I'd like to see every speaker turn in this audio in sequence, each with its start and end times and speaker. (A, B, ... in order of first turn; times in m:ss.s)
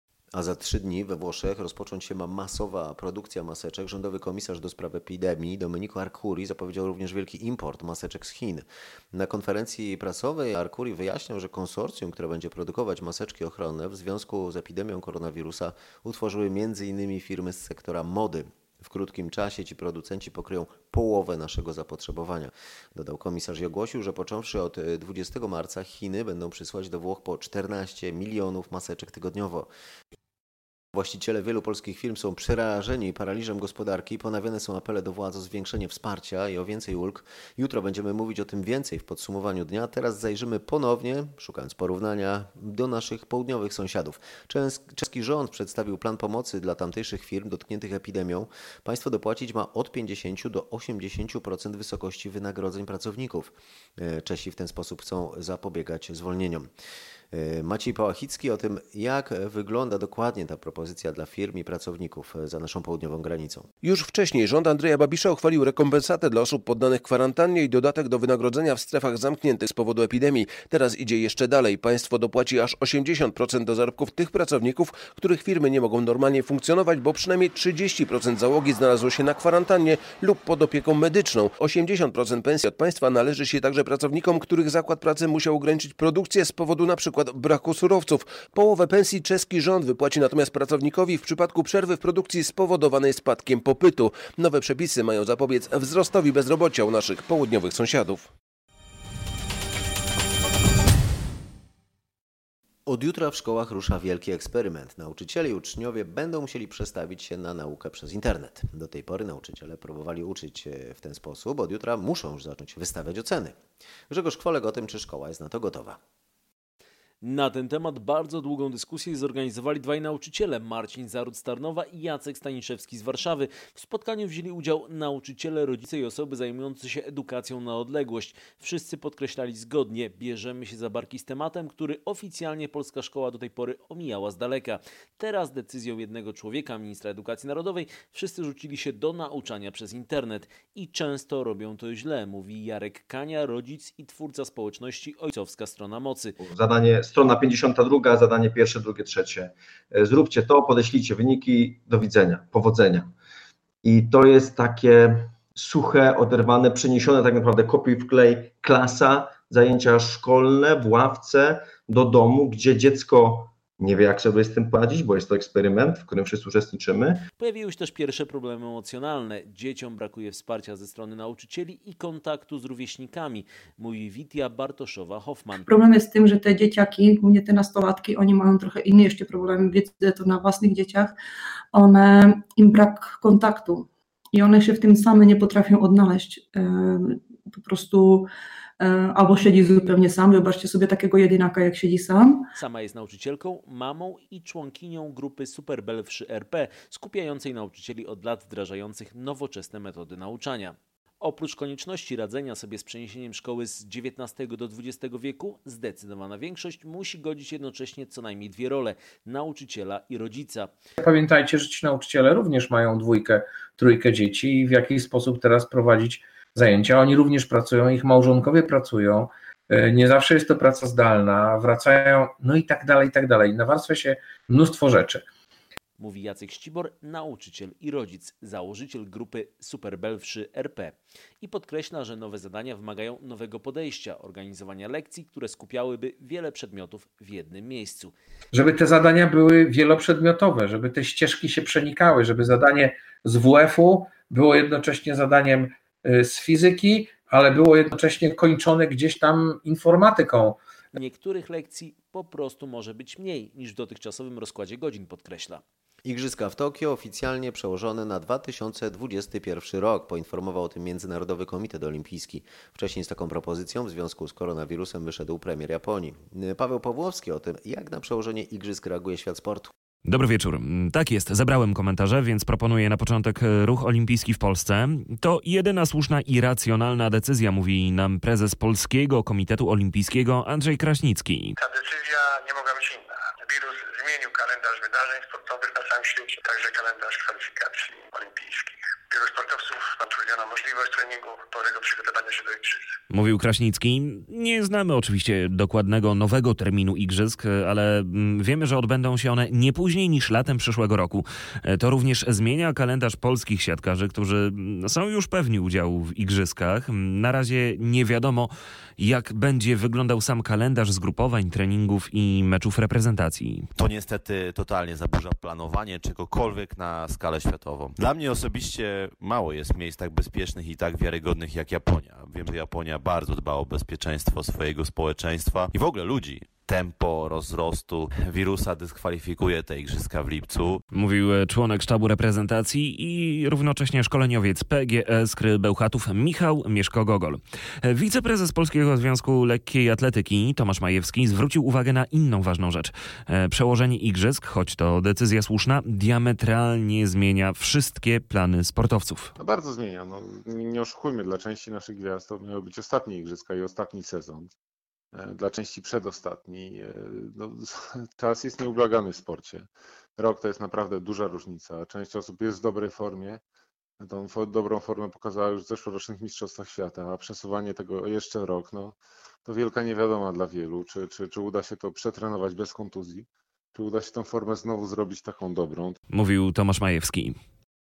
0:00.3-0:29.7 A
0:30.9-0:56.7 A
0:57.3-1:03.7 A
1:03.8-1:38.3 B
1:42.8-1:53.6 A
1:54.1-1:56.0 A
1:57.2-2:26.4 C
2:26.4-2:33.1 D
2:33.8-2:47.2 D
2:47.4-2:55.7 C
2:55.6-3:01.2 E
3:01.7-3:12.4 E
3:12.5-3:30.7 C
3:31.0-3:45.2 F
3:46.0-3:58.1 C
3:58.5-4:10.6 F
4:10.9-4:15.6 C
4:16.0-4:29.7 A
4:30.0-4:41.6 G
4:41.6-4:52.8 H
4:53.1-5:13.7 G
5:13.7-5:30.8 I
5:30.9-5:49.3 G
5:49.4-5:54.5 J
5:55.1-6:03.4 J
6:04.0-6:16.0 J
6:16.1-6:17.4 G